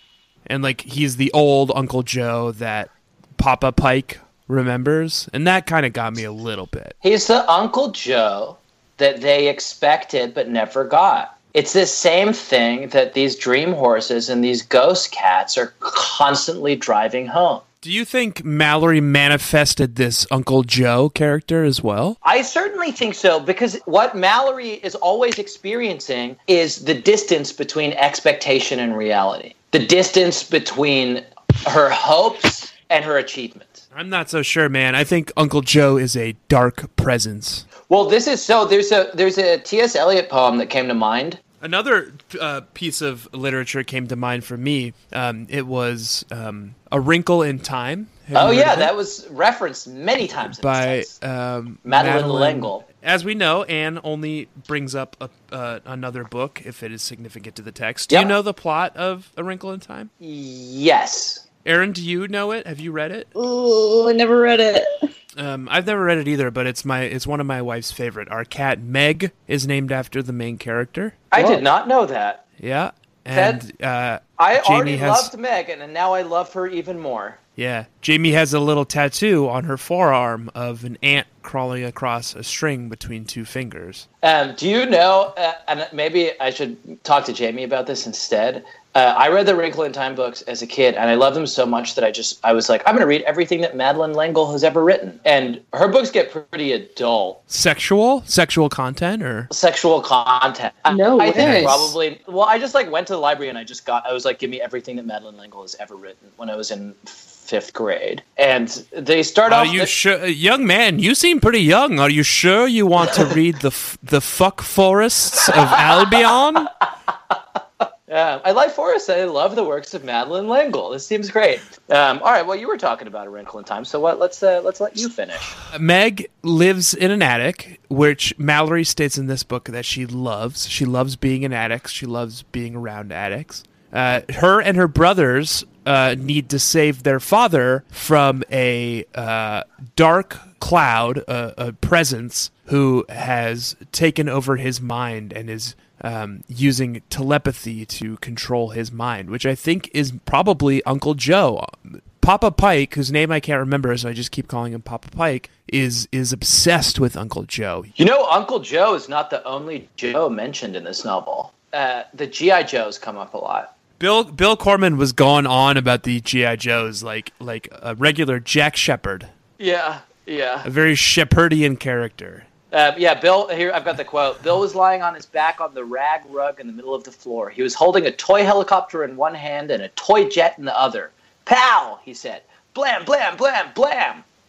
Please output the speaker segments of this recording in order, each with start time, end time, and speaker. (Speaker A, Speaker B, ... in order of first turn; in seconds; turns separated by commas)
Speaker A: 0.5-7.0, Speaker B: 7.0-17.6, Speaker A: 17.8-22.2, Speaker B: 22.2-33.8, Speaker A: 33.9-37.7, Speaker B: 37.9-41.4, Speaker A: 41.6-48.9, Speaker B: 48.3-51.1, Speaker A: 50.5-60.1, Speaker B: 51.9-52.8, Speaker B: 60.2-61.4, Speaker A: 61.6-63.3, Speaker C: 63.4-64.9, Speaker A: 65.4-71.3, Speaker B: 71.3-72.4, Speaker C: 71.4-71.6, Speaker A: 72.6-75.3, Speaker B: 73.3-73.6, Speaker B: 74.4-77.4, Speaker A: 77.6-84.1, Speaker B: 84.2-97.4, Speaker A: 97.5-99.5, Speaker B: 99.5-109.9, Speaker C: 100.9-101.9, Speaker A: 101.4-101.9, Speaker A: 109.5-116.7, Speaker B: 118.1-125.6, Speaker A: 125.7-157.9, Speaker B: 158.0-163.7, Speaker A: 164.0-169.3, Speaker B: 169.6-170.7, Speaker A: 170.6-172.5, Speaker B: 172.7-184.2